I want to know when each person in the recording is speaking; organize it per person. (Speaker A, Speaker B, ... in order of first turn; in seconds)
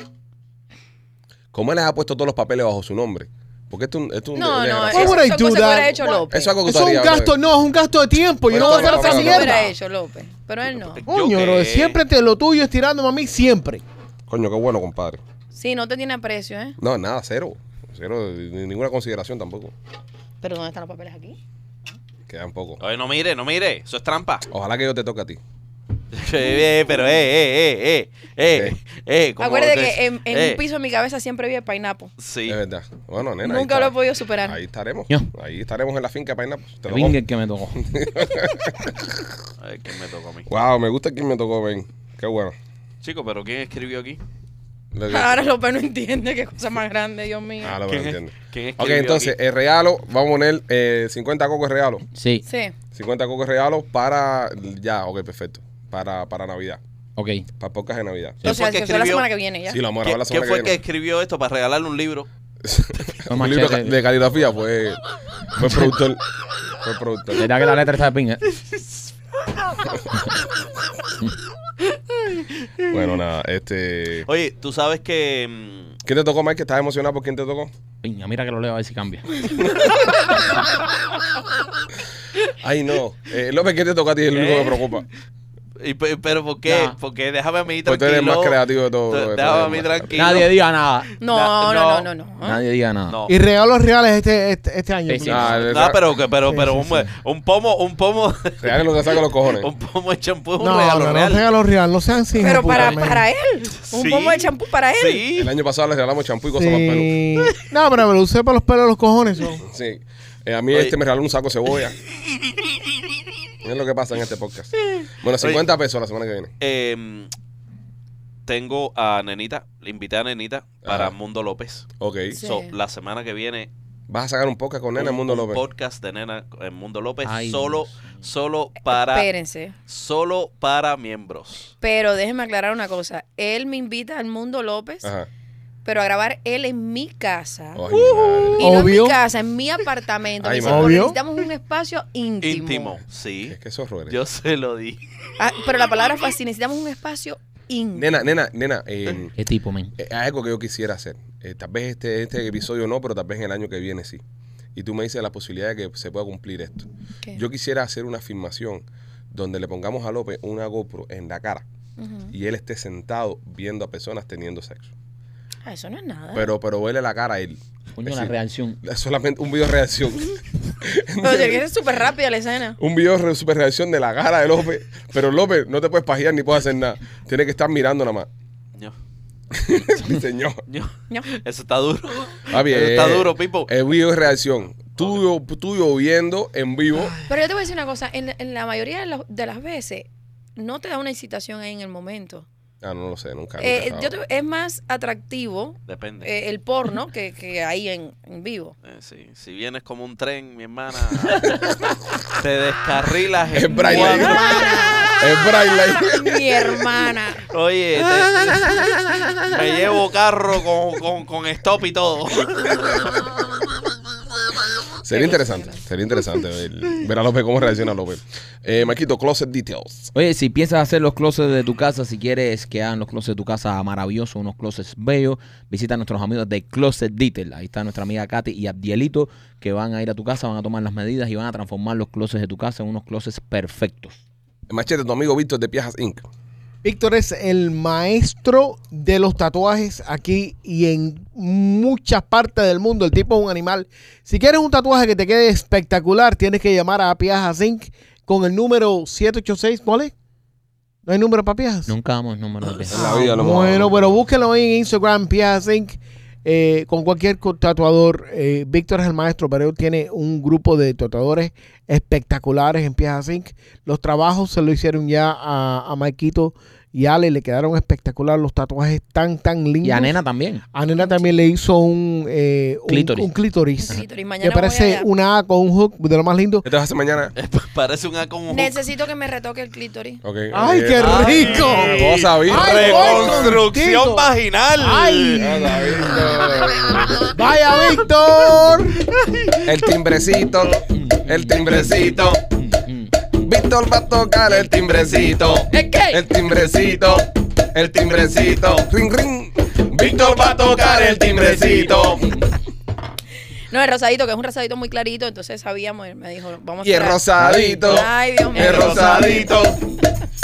Speaker A: 1.5-5.2, 6.3-7.3, 8.5-9.7, 14.3-15.2, 16.8-19.7, 22.3-22.8, 24.5-25.4, 28.5-28.8, 32.5-37.2, 37.8-39.0, 40.5-42.5, 44.9-45.4, 47.6-52.0, 52.9-56.8, 57.6-58.4, 59.7-60.8, 62.6-65.0, 65.5-67.5, 72.9-74.3, 76.0-77.7, 82.6-85.0, 87.8-90.3, 95.2-96.0, 98.6-99.7, 105.3-107.2, 109.6-112.0, 113.6-116.5, 120.8-121.1, 122.0-122.4, 124.1-125.6, 137.7-138.8, 140.4-141.1, 143.5-144.2, 147.9-149.3, 150.0-154.2, 154.7-161.6, 162.3-164.9, 166.3-171.6, 172.8-178.3, 179.5-180.6, 182.5-187.2, 192.8-194.1, 203.5-204.5, 205.2-206.8, 208.5-209.2, 215.0-220.1, 234.7-236.2, 252.9-254.2, 276.6-277.3, 280.2-283.6, 285.4-287.2, 289.6-292.4, 293.4-302.3, 306.8-309.8
Speaker B: 4.3-6.5, 8.5-11.0, 15.5-16.8, 20.4-21.4, 29.4-32.1, 33.4-34.6, 45.1-47.8, 52.4-52.7, 58.4-59.8, 91.2-92.6, 102.4-105.2, 122.3-122.7, 128.9-129.7, 131.8-135.1, 135.8-143.0, 145.4-148.2, 162.0-162.3, 165.6-166.5, 171.2-172.8, 187.2-192.5, 193.6-198.7, 203.7-205.3, 206.0-207.4, 215.1-215.8, 271.0-271.4, 273.8-275.1, 278.5-280.2, 303.7-307.2, 307.8-309.7
Speaker C: 4.9-9.7, 11.1-13.8, 93.3-95.5, 96.5-96.8, 100.6-103.2, 106.5-109.6, 138.6-139.2, 140.6-141.2, 236.8-250.1, 251.1-251.9, 252.9-270.2, 270.7-276.6, 280.5-289.0
Speaker D: 10.7-12.0, 22.8-24.4, 26.1-30.6, 32.2-32.6, 39.6-40.5, 43.0-44.2, 47.9-49.3, 58.4-59.2, 60.0-62.3, 74.3-75.9, 84.3-85.0, 85.8-90.5, 91.1-92.1, 95.6-98.8, 99.4-101.4, 102.6-103.0, 103.8-105.5, 116.6-117.3, 118.5-121.9, 122.4-123.7, 125.0-129.3, 129.9-131.7, 142.4-143.6, 144.1-145.0, 180.7-183.7, 195.9-196.3, 198.8-201.6, 202.3-205.1, 207.5-208.9, 209.4-213.4, 277.4-278.8, 281.0-285.5, 308.5-309.7
Speaker E: 36.9-37.9, 52.1-52.4, 57.1-57.5, 63.3-64.0, 65.6-65.9, 67.3-68.4, 78.0-79.6, 86.7-86.9, 90.1-91.1, 92.4-93.2, 95.1-95.7, 127.2-128.1, 149.4-149.9, 167.9-168.8, 201.3-201.9, 220.1-234.2, 251.9-253.4, 269.8-270.6, 272.9-273.3, 290.9-293.3, 295.7-296.2, 301.2-302.3, 307.4-308.1